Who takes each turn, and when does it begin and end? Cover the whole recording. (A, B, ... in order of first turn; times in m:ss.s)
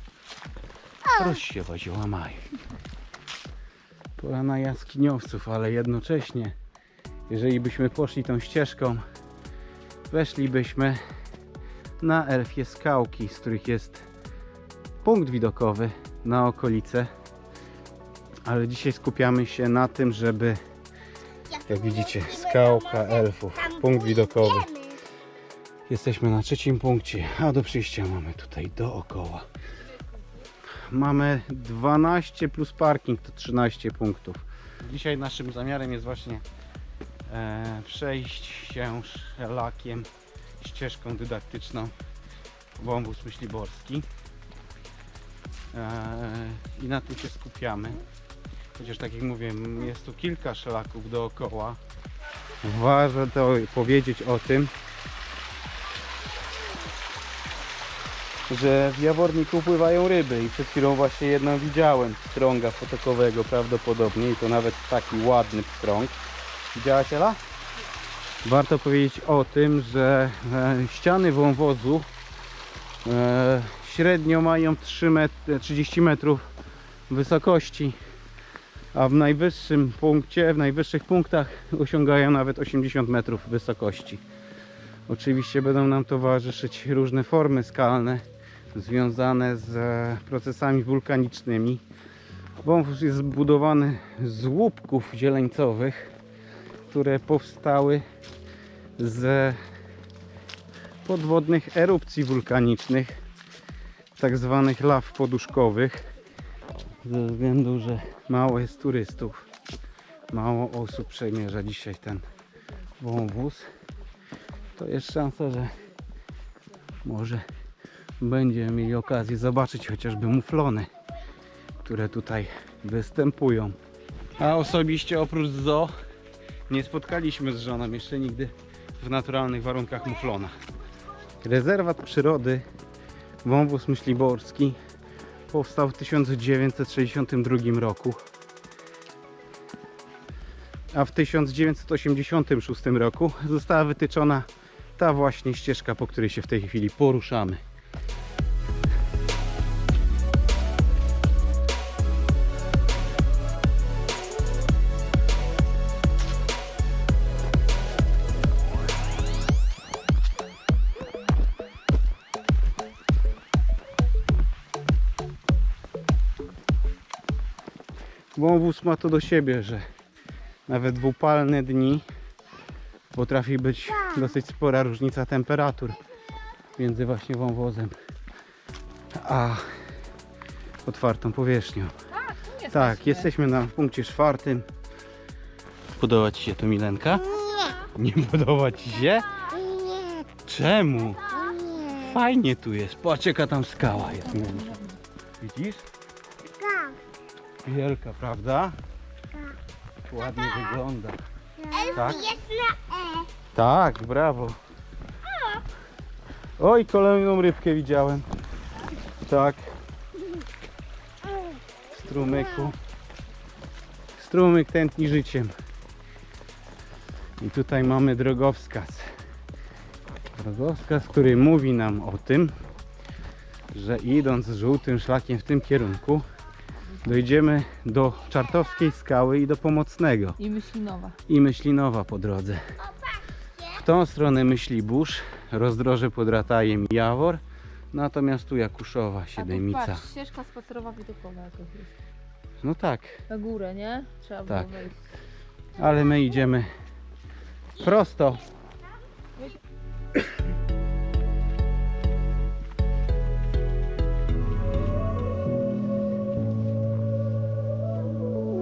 0:01.1-0:02.5 A
0:04.2-0:06.6 A
0:07.3-0:09.0 A
0:10.1-0:11.0 A
0:12.0-0:14.1 A
0:15.0-0:17.1 A
0:18.5-0:20.6 A
0:21.4-0:25.0 B
0:21.7-0:24.7 A
0:25.9-0:29.5 A
0:30.9-0:36.4 A
0:37.3-0:40.1 A
0:40.6-0:41.9 A
0:42.8-0:44.1 A
0:45.7-0:48.0 A
0:48.8-0:51.8 A
0:52.6-0:54.7 A
0:58.5-1:06.2 A
1:06.7-1:07.4 A
1:08.4-1:12.1 A
1:13.0-1:16.4 A
1:17.1-1:18.0 A
1:18.9-1:24.2 A
1:25.1-1:28.2 A
1:28.7-1:31.8 A
1:32.6-1:36.1 A
1:36.9-1:38.0 A
1:39.0-1:39.6 A
1:41.0-1:43.2 A
1:44.2-1:46.1 A
1:47.0-1:49.4 A
1:50.3-1:52.2 A
1:53.0-1:53.7 A
1:54.8-1:55.8 A
1:57.0-1:57.4 A
1:58.2-2:00.9 A
2:01.8-2:03.8 A
2:04.4-2:05.9 A
2:06.7-2:10.6 A
2:11.4-2:12.7 A
2:13.4-2:14.8 A
2:15.5-2:18.2 A
2:20.9-2:27.6 A
2:48.4-2:49.8 A
2:50.7-2:52.0 A
2:53.1-2:56.0 A
2:56.8-2:58.0 A
2:59.1-2:59.7 A
3:00.8-3:01.9 A
3:02.1-3:03.3 C
3:02.7-3:04.7 A
3:06.0-3:07.3 A
3:07.3-3:07.8 B
3:07.9-3:09.4 A
3:09.3-3:10.2 B
3:10.4-3:11.2 A
3:11.2-3:12.2 B
3:11.8-3:14.8 A
3:14.2-3:15.0 C
3:15.4-3:15.8 A
3:16.5-3:17.0 B
3:17.6-3:18.8 A
3:19.3-3:19.6 B
3:20.1-3:21.2 A
3:21.6-3:23.3 B
3:21.9-3:22.4 A
3:23.5-3:24.6 A
3:25.3-3:25.6 B
3:26.6-3:28.3 A
3:29.2-3:29.6 A
3:31.9-3:32.8 A
3:34.2-3:35.5 A
3:37.4-3:39.1 A
3:40.4-3:42.5 A
3:43.7-3:46.3 A
3:47.0-3:50.4 A
3:50.4-3:51.2 C
3:51.3-3:52.7 A
3:52.8-3:53.8 B
3:53.8-4:00.0 A
3:59.4-4:01.9 C
4:02.6-4:03.2 A
4:03.3-4:05.0 C
4:04.5-4:04.8 A
4:05.8-4:06.7 A
4:07.8-4:08.4 A